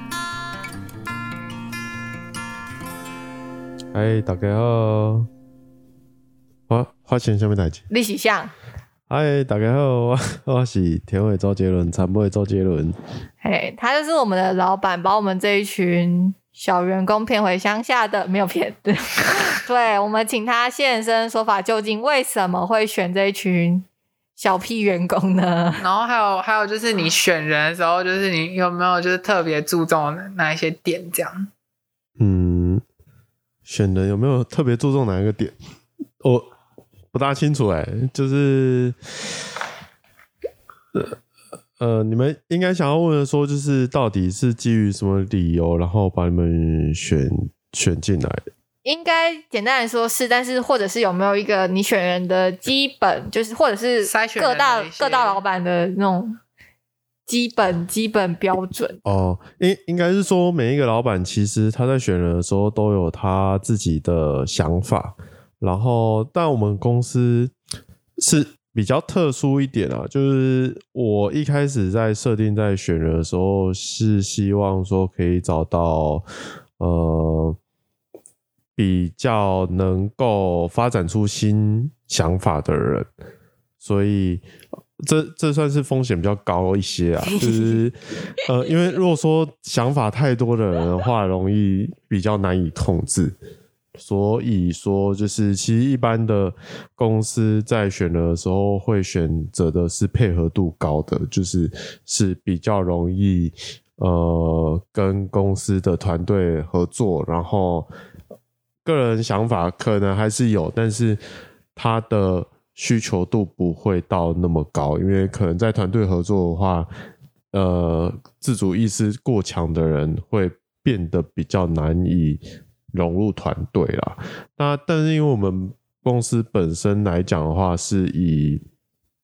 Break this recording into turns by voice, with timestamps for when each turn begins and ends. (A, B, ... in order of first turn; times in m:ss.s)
0:03.9-0:05.3 A
0:06.7-0:07.8 A
0:07.9-0:08.5 B
0:09.1-0:13.0 A
0:13.4-0:25.8 B
0:25.8-0:31.5 C
0:32.2-0:32.8 A
0:33.7-0:35.6 A
0:37.1-0:39.0 A
0:41.8-0:48.4 A
0:48.8-0:56.4 B
0:54.0-0:55.4 C
0:57.3-0:59.0 B
0:59.0-1:07.5 A
1:08.2-1:16.2 A
1:16.8-1:17.6 A
1:18.8-1:23.1 A
1:23.8-1:24.4 A
1:25.0-1:33.4 A
1:34.0-1:47.9 A
1:48.8-1:51.2 A
1:51.8-1:56.9 A
1:57.5-2:02.4 A
2:02.9-2:08.6 A